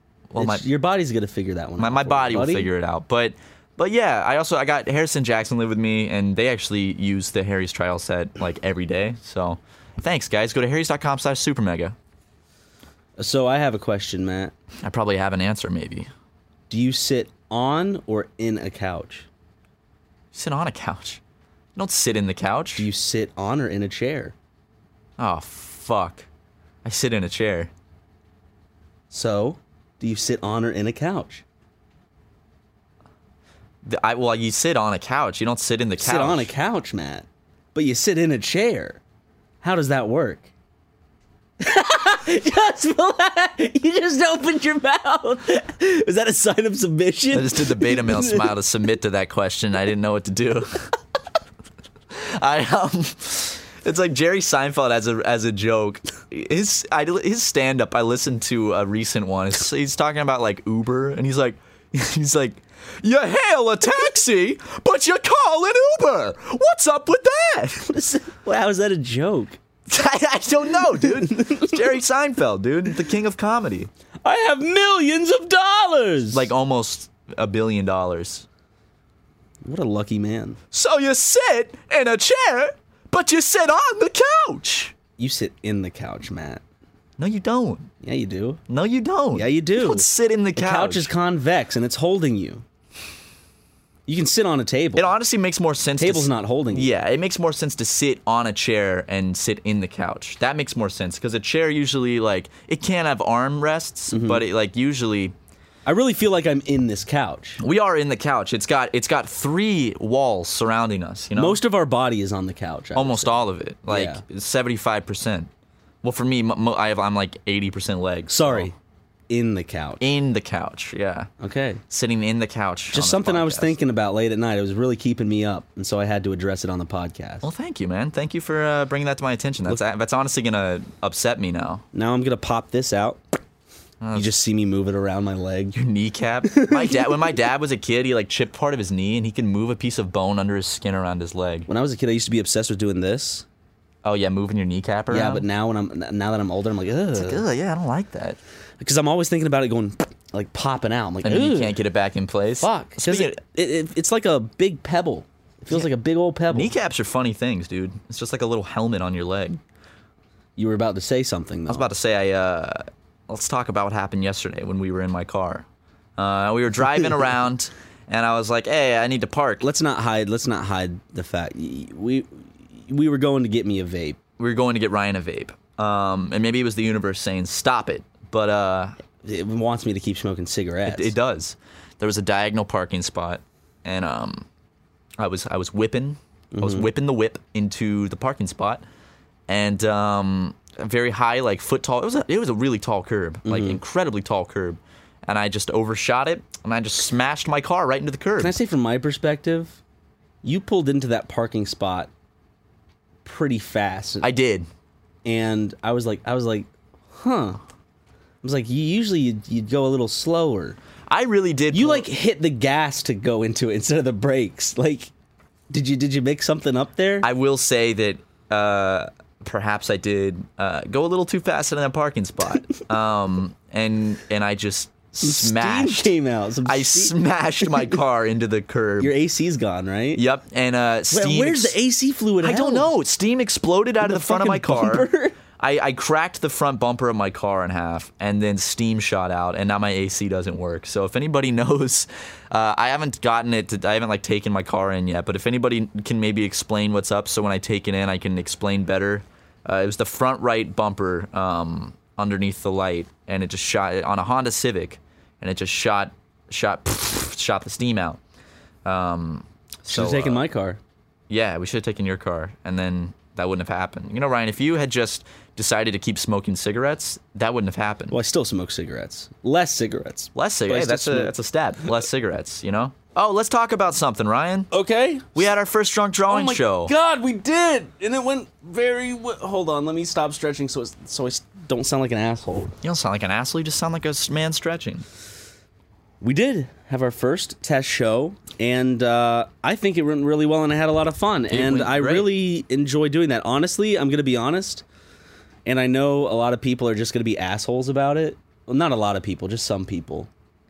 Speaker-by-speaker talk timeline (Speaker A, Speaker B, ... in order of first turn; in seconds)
Speaker A: 0.3-0.6, 1.8-11.9, 14.8-16.1, 20.3-21.2, 21.8-22.9, 25.2-26.2, 26.8-27.7, 33.8-36.5, 47.3-50.9, 52.1-67.9, 69.9-73.9, 76.3-78.4, 80.7-84.9, 87.2-87.9, 88.7-91.1, 95.0-105.3, 107.6-111.6, 112.9-115.5, 116.0-118.7, 120.0-121.3, 121.9-123.8, 127.4-131.8, 134.0-134.3, 135.7-141.7, 144.0-145.4, 147.1-148.4, 151.2-153.4, 156.5-159.6, 161.7-165.6, 166.2-169.7, 174.4-178.9, 180.8-184.4, 185.2-188.8, 189.5-198.6, 204.2-204.7, 211.1-212.1, 217.2-226.1, 226.6-229.1, 230.1-231.8, 232.4-258.2, 258.8-260.4, 261.3-268.2, 270.3-274.7, 275.4-276.9, 282.8-285.0, 291.5-292.3
Speaker B: 0.4-2.7, 13.2-14.5, 16.7-19.3, 22.8-24.3, 29.1-31.4, 36.0-39.0, 39.6-40.5, 41.6-48.5, 67.8-69.6, 71.0-71.7, 74.2-76.5, 79.6-80.6, 85.2-86.6, 88.0-88.6, 89.3-92.6, 94.1-95.1, 96.0-96.9, 104.1-104.4, 105.8-107.6, 111.3-113.3, 113.9-114.2, 118.3-118.7, 119.3-120.0, 121.4-121.8, 122.9-127.5, 131.9-133.2, 134.1-135.8, 136.5-137.2, 141.7-143.4, 145.1-147.4, 148.8-151.8, 152.6-156.7, 160.6-161.9, 169.6-174.2, 179.2-181.1, 186.5-186.9, 193.4-193.8, 198.4-199.8, 200.4-202.1, 203.2-204.3, 205.2-207.6, 208.4-210.8, 211.7-215.1, 215.7-217.3, 225.2-227.9, 229.0-230.2, 231.1-232.9, 234.0-235.3, 259.9-260.8, 268.1-271.3, 274.7-275.5, 276.3-282.7, 286.2-294.8, 295.6-300.3